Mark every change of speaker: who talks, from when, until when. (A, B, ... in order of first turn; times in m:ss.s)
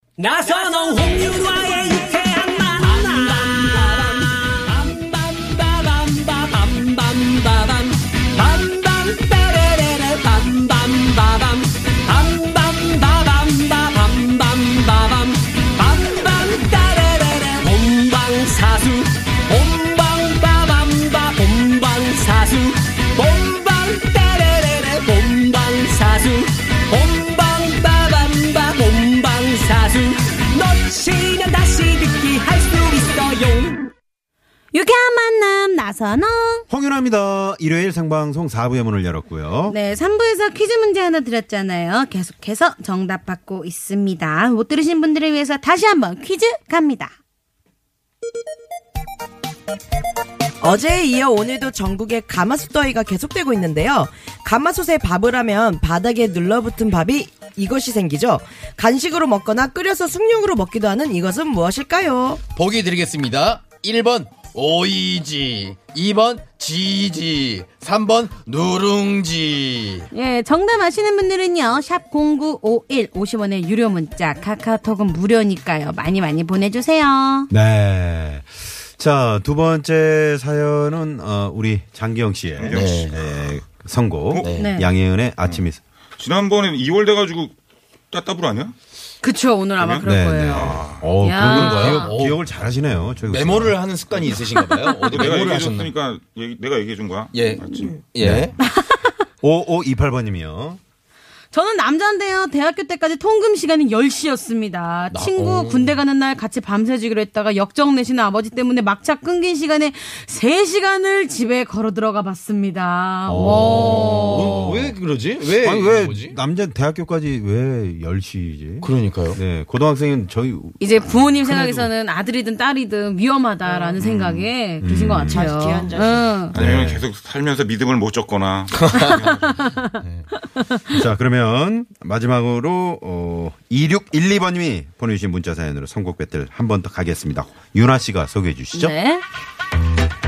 0:00.2-0:33.9 A
0:34.7-0:36.6 B
0:36.7-0:39.8 C
0:39.7-0:47.1 B
0:50.6-1:02.4 D
1:02.5-1:10.1 E
1:10.1-1:17.5 B
1:17.5-1:25.8 C
1:22.6-1:23.2 F
1:22.7-1:23.2 E
1:24.4-1:24.8 E
1:24.5-1:24.9 B
1:25.4-1:27.6 F
1:28.1-1:28.8 F
1:29.2-1:32.1 B
1:29.8-1:31.1 F
1:30.0-1:33.8 C
1:31.4-1:32.5 E
1:33.2-1:35.9 E
1:35.1-1:38.0 F
1:37.3-1:38.5 E
1:38.2-1:38.5 C
1:38.6-1:39.2 B
1:39.4-1:40.8 C
1:41.5-1:54.7 B
1:45.1-1:46.0 E
1:53.2-1:54.9 C
1:53.4-1:56.4 E
1:55.5-2:01.9 C
1:58.8-1:59.4 E
2:00.8-2:06.5 B
2:03.6-2:04.0 D
2:04.8-2:05.5 C
2:05.3-2:06.4 D
2:06.5-2:09.5 F
2:06.5-2:07.0 E
2:08.8-2:10.3 E
2:09.1-2:10.9 B
2:10.9-2:18.9 C
2:18.7-2:19.2 B